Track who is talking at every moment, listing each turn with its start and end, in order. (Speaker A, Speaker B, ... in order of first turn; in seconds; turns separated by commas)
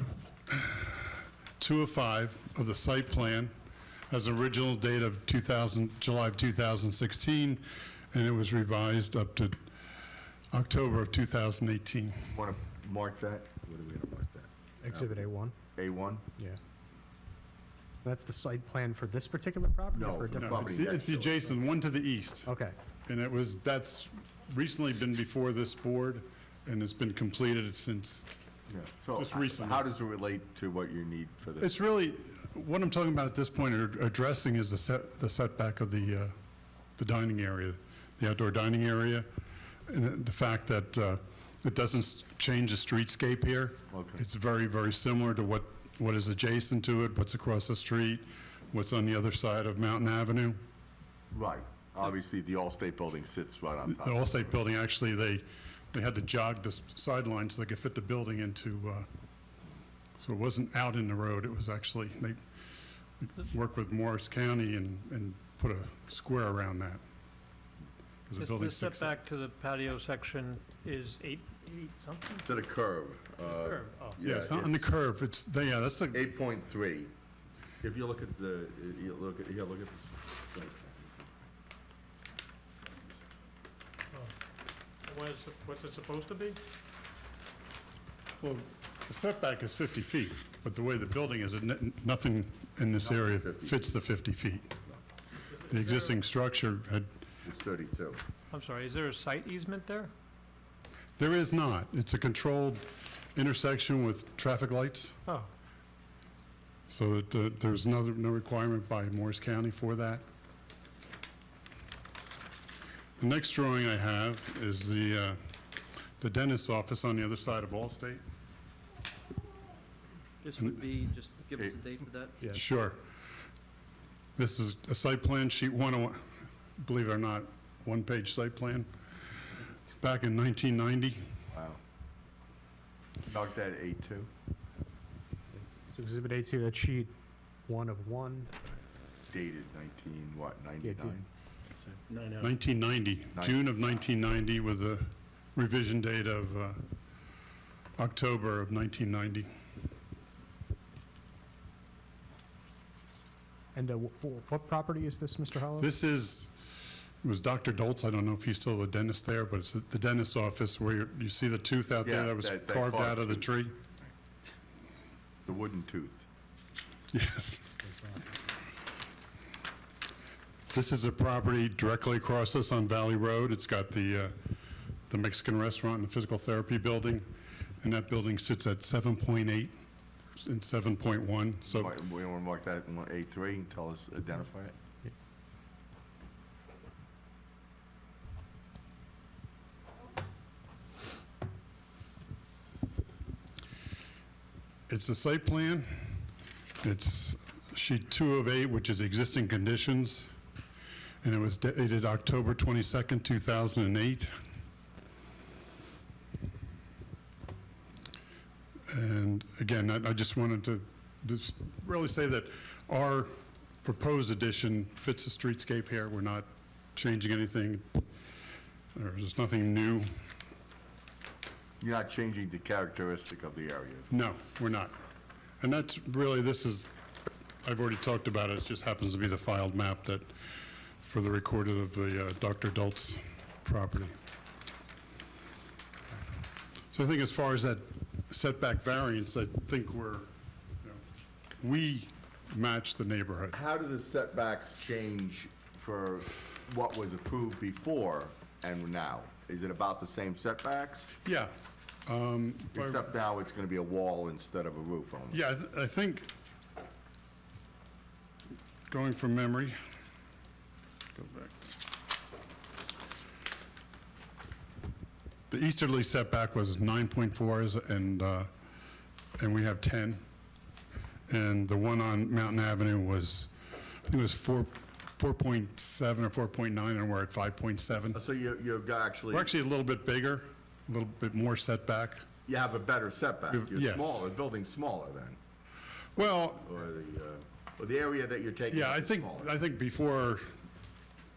Speaker A: 0.6-1.0, Speaker A: 1.6-3.5, Speaker A: 4.1-9.6, Speaker A: 10.5-12.3, Speaker B: 12.3-15.2, Speaker C: 14.8-15.6, Speaker B: 15.7-16.3, Speaker C: 18.0-20.8, Speaker B: 19.9-21.5, Speaker A: 20.4-22.5, Speaker C: 22.4-22.8, Speaker A: 23.1-28.3, Speaker B: 28.7-31.8, Speaker A: 29.1-29.8, Speaker A: 31.6-36.4, Speaker A: 37.0-39.3, Speaker A: 39.9-50.6, Speaker B: 43.9-44.2, Speaker B: 51.3-54.6, Speaker A: 53.9-59.1, Speaker A: 60.2-62.4, Speaker A: 63.2-67.0, Speaker A: 68.3-69.2, Speaker D: 68.4-72.6, Speaker B: 72.4-74.9, Speaker D: 73.5-74.2, Speaker A: 74.2-76.3, Speaker B: 76.1-77.1, Speaker B: 77.8-81.3, Speaker D: 85.0-86.6, Speaker A: 88.4-94.8, Speaker B: 93.0-93.9, Speaker D: 95.5-96.2, Speaker A: 95.7-97.1, Speaker B: 97.4-98.2, Speaker D: 98.5-100.1, Speaker A: 101.2-105.2, Speaker A: 106.9-110.2, Speaker A: 113.2-115.4, Speaker A: 116.2-118.2, Speaker E: 120.4-122.5, Speaker A: 122.5-123.0, Speaker A: 124.4-126.2, Speaker A: 126.8-128.9, Speaker A: 129.9-131.3, Speaker B: 131.5-131.8, Speaker B: 133.3-134.3, Speaker C: 135.8-137.2, Speaker C: 137.7-138.5, Speaker B: 139.3-141.3, Speaker C: 140.8-141.2, Speaker A: 142.4-146.8, Speaker B: 143.3-143.7, Speaker A: 148.0-149.5, Speaker C: 153.7-155.9, Speaker A: 155.8-156.6, Speaker A: 157.2-163.8, Speaker B: 162.0-163.5, Speaker B: 165.5-166.2, Speaker A: 167.1-167.9, Speaker A: 170.7-174.4, Speaker A: 175.1-177.3, Speaker A: 177.8-181.9, Speaker B: 181.7-184.8, Speaker A: 194.9-196.2, Speaker A: 196.8-200.3, Speaker A: 201.2-204.3, Speaker A: 208.9-218.1, Speaker A: 218.9-220.1, Speaker B: 221.8-224.1, Speaker A: 224.1-225.0, Speaker A: 225.6-226.9, Speaker A: 227.6-234.2, Speaker A: 236.9-240.3, Speaker A: 241.6-243.6, Speaker B: 243.5-251.1, Speaker A: 251.2-251.6, Speaker A: 252.1-253.1, Speaker B: 252.7-255.4, Speaker A: 255.3-256.3, Speaker A: 258.9-259.8, Speaker A: 261.2-261.5, Speaker A: 265.5-268.5, Speaker A: 269.4-270.2, Speaker A: 271.3-273.5, Speaker A: 274.0-278.2, Speaker B: 278.1-279.5, Speaker A: 279.3-282.3, Speaker B: 282.5-285.4, Speaker A: 283.5-284.2, Speaker A: 286.2-286.7, Speaker B: 286.6-289.5, Speaker A: 288.7-290.5